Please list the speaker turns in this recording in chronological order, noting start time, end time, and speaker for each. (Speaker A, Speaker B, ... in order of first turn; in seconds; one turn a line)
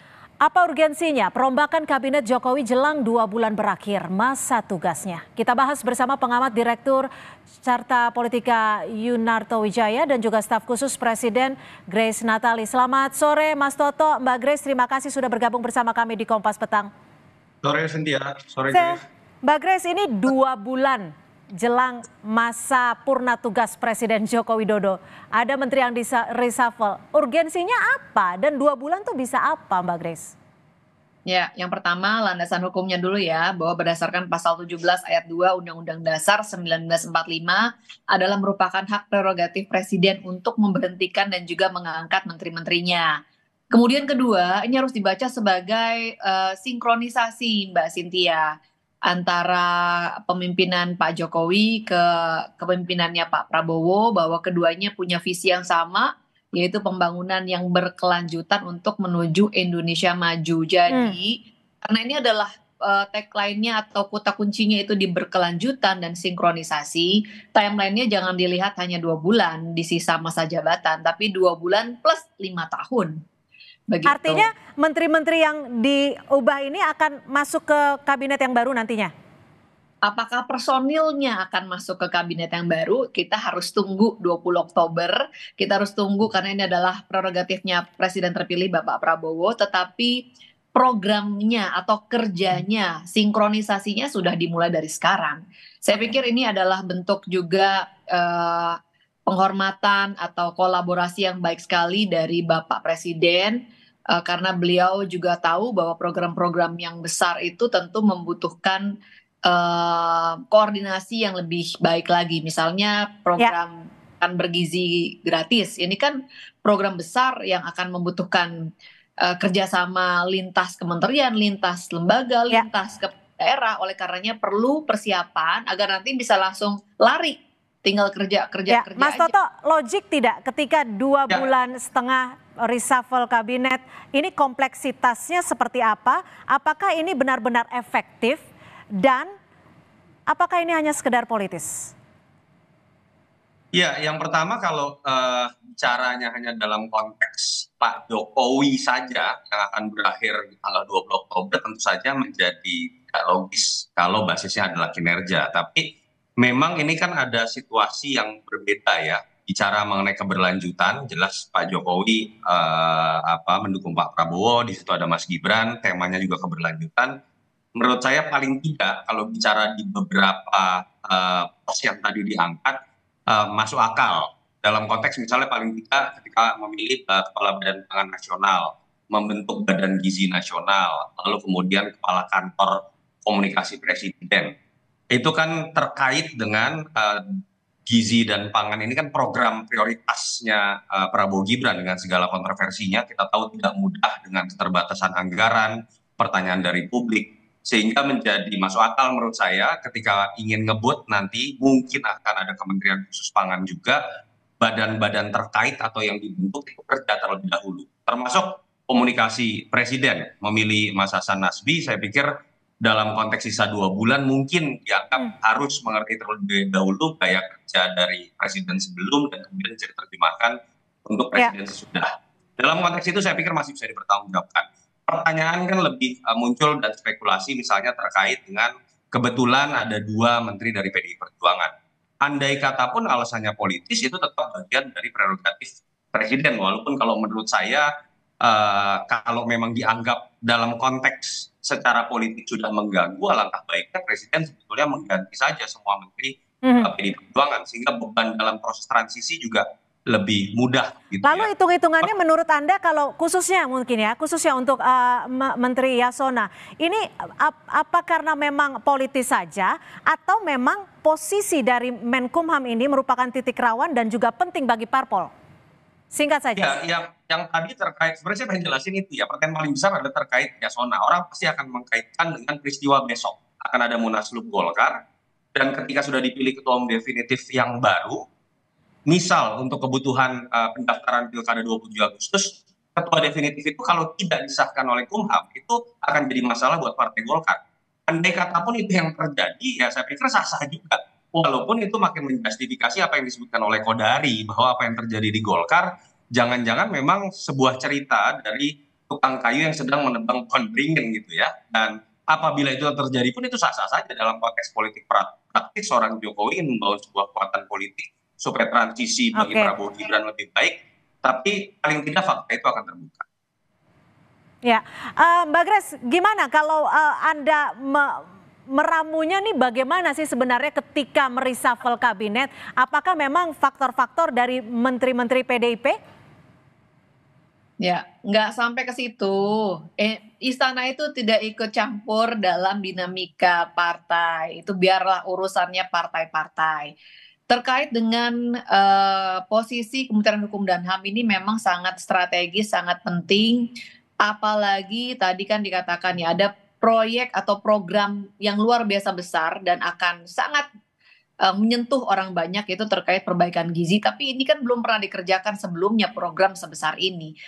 Speaker A: 0.4-7.1
Speaker A: 7.6-16.9
Speaker B: 17.6-19.0
Speaker A: 18.7-30.3
Speaker C: 31.3-43.1
Speaker C: 43.7-48.5
Speaker C: 49.1-73.1
Speaker A: 60.9-61.1
Speaker C: 73.9-74.5
Speaker A: 74.1-79.1
Speaker C: 80.0-103.6
Speaker C: 104.1-108.9
Speaker C: 109.5-118.5
Speaker C: 119.2-129.3
Speaker A: 128.7-139.3
Speaker A: 140.3-141.9
Speaker B: 143.7-167.1
Speaker B: 167.8-172.8
Speaker B: 173.3-184.5
Speaker B: 185.1-204.0
Speaker B: 204.6-212.3
Speaker B: 212.8-231.7
Speaker B: 232.2-237.9
Speaker B: 238.4-251.5
Speaker A: 246.6-246.9
Speaker A: 251.2-265.3
Speaker A: 266.1-266.8
Speaker B: 266.6-275.0
Speaker B: 275.5-278.2
Speaker B: 279.1-313.2
Speaker A: 309.4-309.7
Speaker A: 314.6-326.0
Speaker C: 327.8-336.9
Speaker C: 337.5-343.7
Speaker C: 344.2-350.6
Speaker C: 351.5-357.3